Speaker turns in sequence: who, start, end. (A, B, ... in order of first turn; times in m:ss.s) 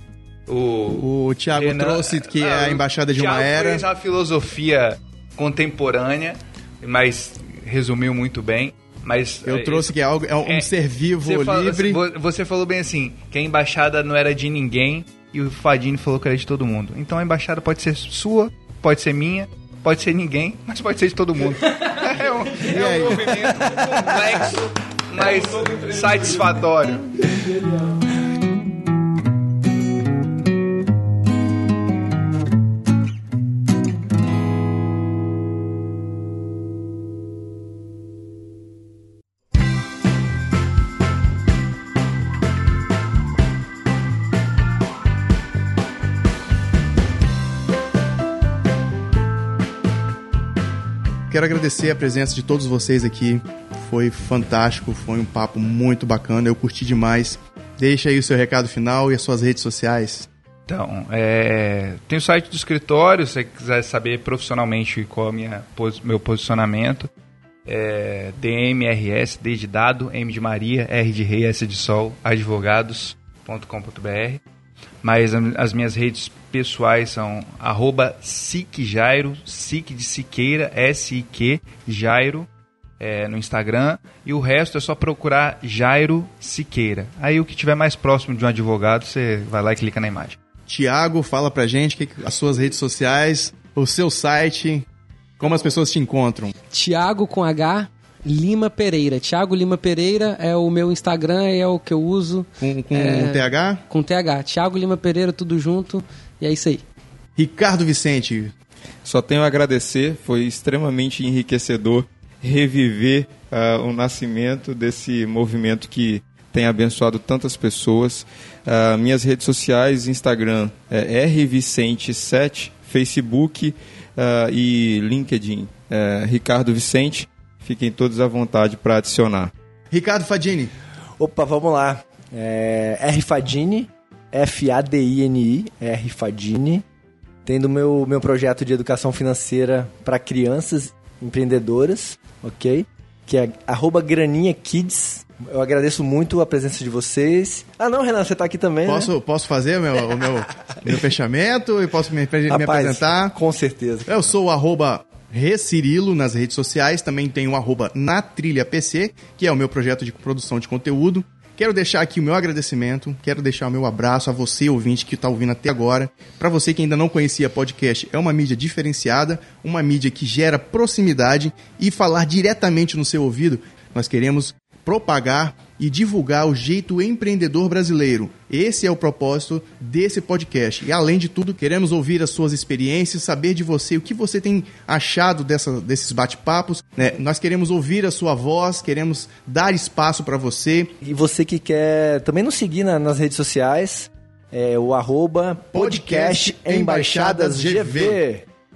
0:00.5-0:10.7 A
0:00.9-0:03.8 B
0:09.4-0:12.0 B
0:11.2-0:27.3 A
0:22.6-0:23.3 B
0:23.5-0:24.1 C
0:51.3-1:00.3 B
1:00.7-1:07.1 A
1:07.7-1:14.4 A
1:15.0-1:22.5 A
1:23.0-1:30.4 A
1:30.7-1:34.8 B
1:35.4-1:36.5 B
1:36.7-1:46.8 D
1:42.6-1:43.8 B
1:47.4-1:48.5 B
1:49.0-2:09.5 E
2:09.9-2:10.7 B
2:11.2-2:16.8 C
2:17.5-2:29.1 C
2:28.9-2:33.4 B
2:32.5-2:34.3 C
2:34.1-3:10.9 B
3:11.0-3:18.4 C
3:15.7-3:18.2 B